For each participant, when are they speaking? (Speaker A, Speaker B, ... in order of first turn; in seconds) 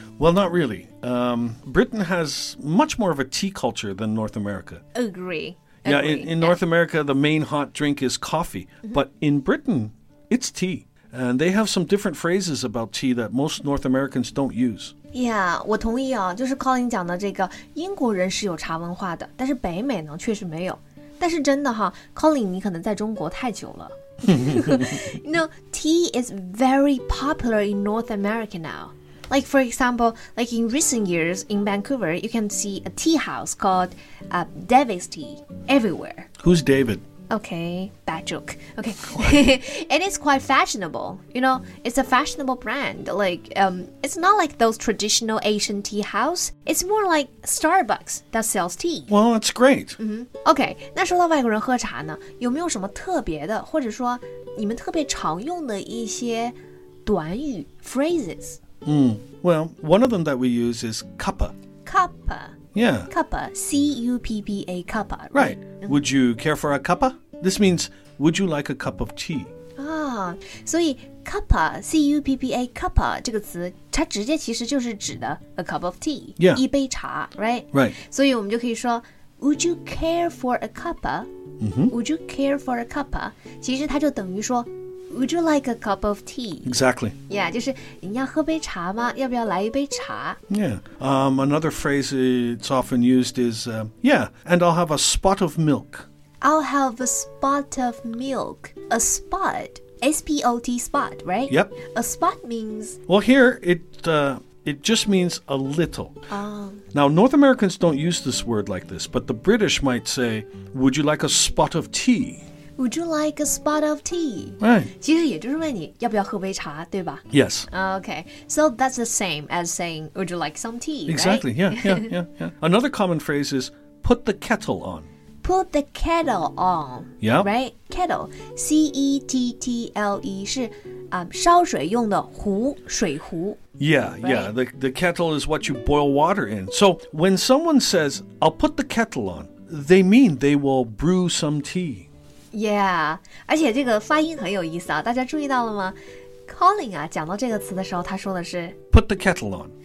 Speaker A: 0.2-4.8, 5.8-14.9, 24.3-25.0, 36.4-37.0, 39.1-39.5, 49.1-50.0, 58.8-61.5, 62.7-63.1, 65.3-69.5, 81.6-81.9, 86.6-87.1, 90.5-96.0, 103.1-106.2, 106.9-112.4, 114.6-114.9, 117.3-117.7, 121.1-125.1, 127.2-127.5, 133.8-142.1, 148.9-149.7
Speaker B: 4.9-6.5, 15.1-36.3, 37.3-49.1, 50.0-58.6, 61.8-62.6, 63.1-66.0, 69.8-81.3, 81.9-90.4, 96.4-103.0, 106.3-106.8, 112.8-122.1, 125.4-133.6, 134.2-134.5, 142.5-145.9, 146.5-148.8